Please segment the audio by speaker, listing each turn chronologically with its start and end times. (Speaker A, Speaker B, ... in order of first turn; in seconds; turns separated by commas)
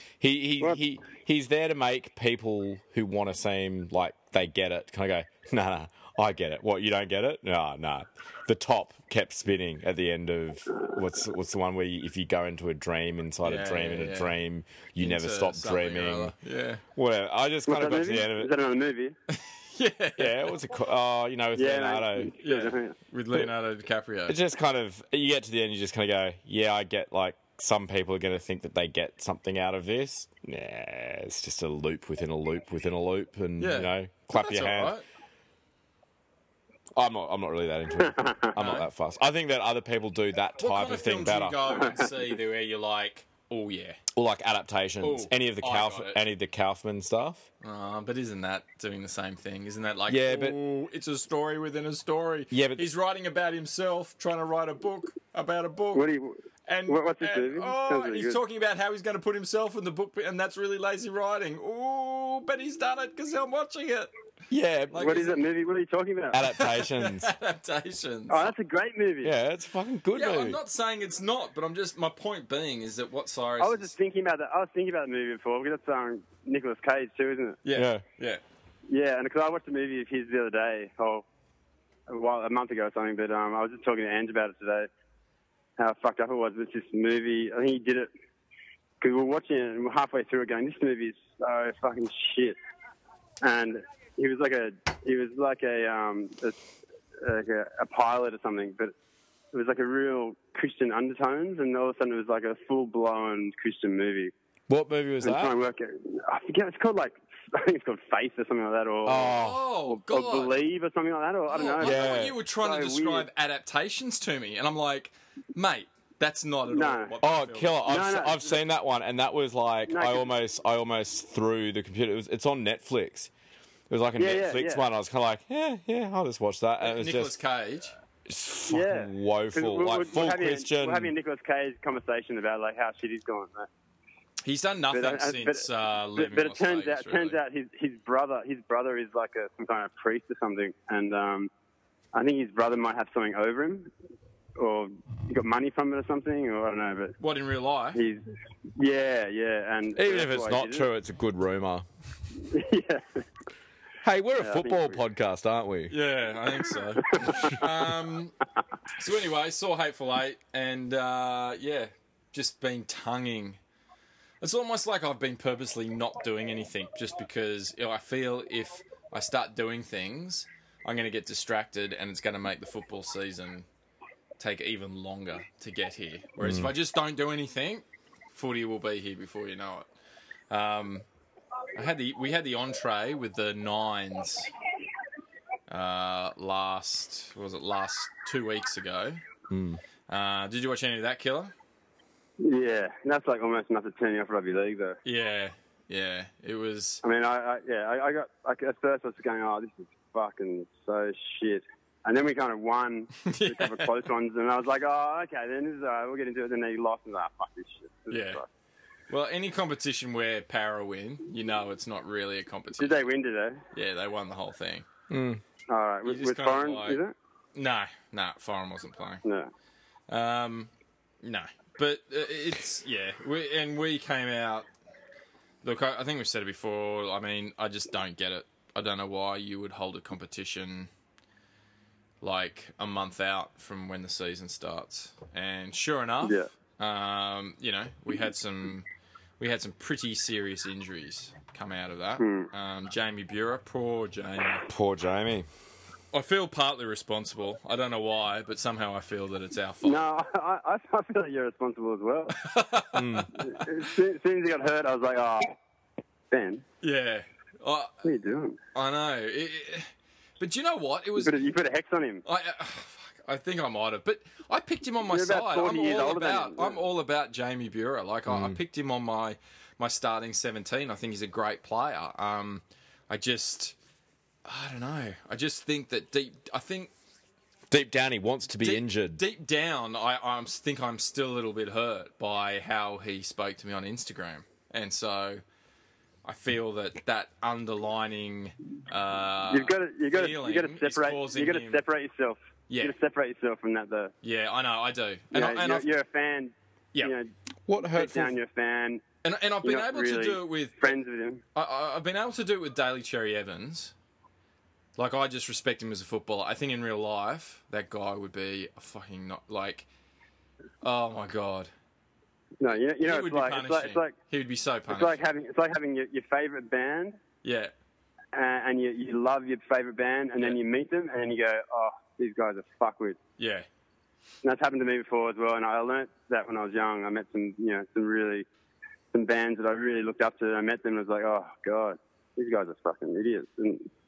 Speaker A: 0.2-16.3, Speaker B: 13.4-14.3, Speaker B: 15.0-16.8, Speaker A: 17.0-18.5, Speaker C: 17.7-19.2, Speaker B: 19.3-20.5, Speaker A: 20.2-22.3, Speaker C: 21.6-22.9, Speaker B: 22.4-24.4, Speaker A: 24.3-35.0, Speaker B: 33.6-35.0, Speaker A: 36.9-41.6, Speaker B: 38.6-38.9, Speaker B: 40.6-44.0, Speaker A: 44.1-47.5, Speaker B: 45.0-46.2, Speaker B: 47.6-56.1, Speaker A: 50.1-50.6, Speaker A: 52.5-52.9, Speaker C: 56.0-58.4, Speaker B: 56.7-64.1, Speaker A: 64.5-65.2, Speaker B: 64.9-65.4, Speaker C: 65.0-66.4, Speaker A: 66.3-67.3, Speaker B: 66.5-68.5, Speaker C: 68.3-69.3, Speaker A: 69.2-70.6, Speaker B: 70.1-73.9, Speaker C: 73.6-77.6, Speaker B: 77.6-78.4, Speaker A: 77.7-78.0, Speaker C: 78.9-81.2, Speaker C: 82.1-84.9, Speaker C: 85.8-88.1, Speaker C: 89.0-92.6, Speaker C: 93.4-96.6, Speaker C: 97.2-98.9, Speaker C: 99.5-104.3, Speaker A: 104.7-105.5, Speaker C: 105.2-109.4, Speaker A: 109.0-109.7, Speaker B: 109.3-110.6, Speaker C: 109.9-113.3, Speaker B: 111.5-117.8, Speaker A: 111.8-112.4, Speaker C: 116.7-117.1, Speaker A: 117.2-123.3, Speaker C: 117.8-118.5, Speaker C: 119.9-120.3, Speaker A: 123.9-127.4, Speaker C: 124.2-124.8, Speaker B: 126.8-127.9, Speaker A: 128.3-131.1, Speaker C: 128.7-133.7, Speaker B: 134.4-137.4, Speaker C: 134.9-135.7, Speaker C: 136.2-141.5, Speaker C: 142.1-143.9, Speaker C: 144.6-147.2, Speaker B: 147.2-148.0, Speaker C: 147.9-148.2, Speaker C: 148.8-150.9, Speaker A: 149.9-151.9, Speaker C: 152.5-153.2, Speaker A: 154.0-156.0, Speaker C: 154.4-155.0, Speaker B: 155.9-158.3, Speaker C: 157.1-157.6, Speaker B: 159.0-163.6, Speaker B: 164.4-173.7, Speaker B: 174.4-179.9, Speaker A: 176.4-176.7, Speaker B: 180.5-181.1, Speaker B: 181.8-184.5, Speaker B: 185.7-189.2, Speaker A: 189.5-189.8, Speaker B: 190.1-191.5, Speaker C: 192.4-195.0, Speaker B: 195.1-197.0, Speaker C: 197.0-208.5, Speaker B: 203.3-204.0, Speaker B: 208.1-208.4, Speaker B: 209.1-213.1, Speaker C: 212.8-213.6, Speaker B: 213.7-214.9, Speaker A: 215.1-215.4, Speaker C: 215.7-217.1, Speaker B: 216.1-217.0, Speaker B: 217.6-219.2, Speaker C: 219.2-219.5, Speaker B: 220.1-220.7, Speaker B: 221.2-224.7, Speaker B: 225.6-230.9, Speaker B: 232.2-238.9, Speaker B: 239.4-244.7, Speaker C: 242.2-242.5, Speaker A: 244.7-245.5, Speaker B: 246.1-250.0, Speaker C: 249.8-252.4, Speaker B: 252.4-253.5, Speaker A: 252.9-253.3, Speaker C: 253.4-255.5, Speaker C: 256.3-256.6, Speaker B: 256.8-257.9, Speaker C: 258.1-258.6, Speaker B: 258.7-261.5, Speaker C: 261.2-262.2, Speaker B: 262.2-273.8, Speaker C: 265.1-266.9, Speaker A: 268.3-268.6, Speaker B: 274.4-276.9, Speaker A: 277.7-279.2, Speaker B: 278.6-285.4, Speaker B: 286.2-291.8, Speaker C: 289.5-294.1, Speaker B: 292.7-292.9, Speaker B: 294.2-295.9, Speaker C: 295.3-297.3, Speaker A: 297.7-298.4, Speaker C: 297.9-299.0, Speaker B: 299.2-300.9, Speaker C: 299.6-301.4, Speaker B: 301.6-303.9, Speaker B: 305.0-309.9, Speaker B: 310.8-311.7, Speaker C: 312.6-314.1, Speaker B: 313.0-315.2, Speaker C: 314.9-317.2, Speaker B: 317.4-317.7, Speaker C: 318.3-323.2, Speaker B: 323.4-323.7, Speaker C: 324.4-328.5, Speaker C: 329.1-333.9